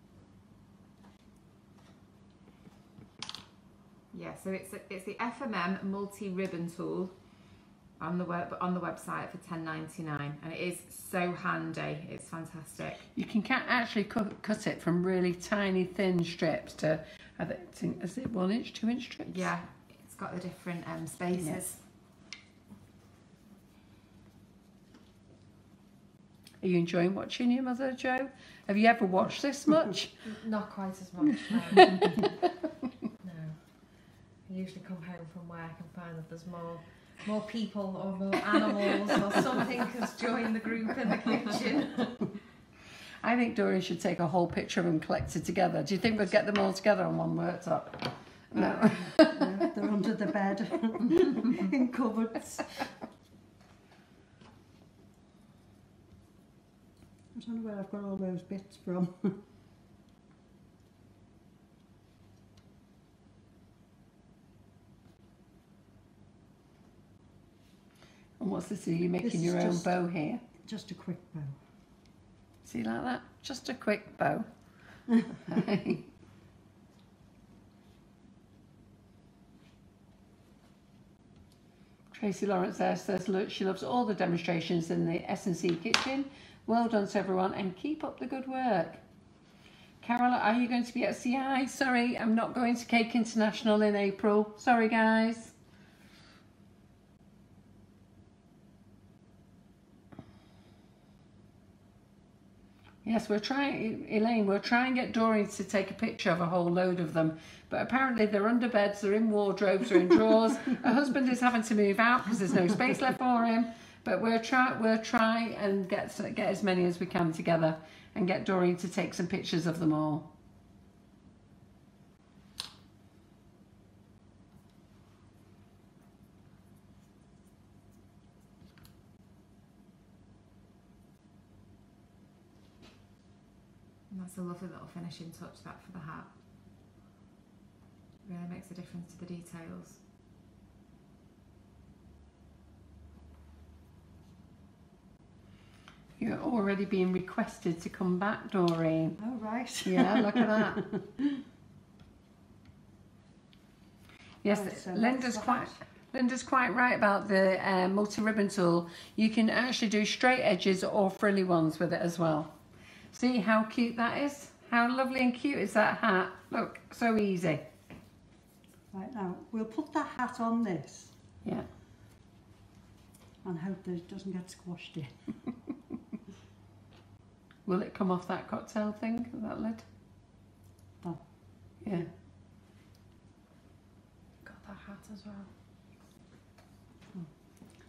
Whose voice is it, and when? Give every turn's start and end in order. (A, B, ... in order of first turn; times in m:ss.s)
0:04.1-0:07.1 A
0:08.0-0:13.0 A
0:13.1-0:19.5 B
0:19.3-0:21.8 A
0:26.6-0:30.2 B
0:30.2-0:32.3 C
0:31.7-0:32.5 B
0:33.2-0:33.6 C
0:34.5-0:42.1 C
0:43.2-0:49.7 B
0:48.5-0:52.8 D
0:57.3-0:59.4 D
1:08.4-1:10.4 B
1:09.2-1:09.9 D
1:10.6-1:11.6 D
1:12.6-1:14.5 B
1:15.4-1:16.0 B
1:22.1-1:29.0 B
1:30.0-1:35.5 B
1:43.0-2:00.3 B
2:14.1-2:16.3 A
2:18.3-2:20.0 A
2:26.2-2:29.2 B
2:29.2-2:31.4 D
2:29.8-2:30.8 B
2:34.4-2:42.5 B
2:34.4-2:35.8 D
2:43.1-2:47.6 B
2:48.9-2:51.1 D
2:53.4-2:55.3 D
2:57.6-2:59.8 B
3:01.8-3:02.1 B
3:04.4-3:05.5 C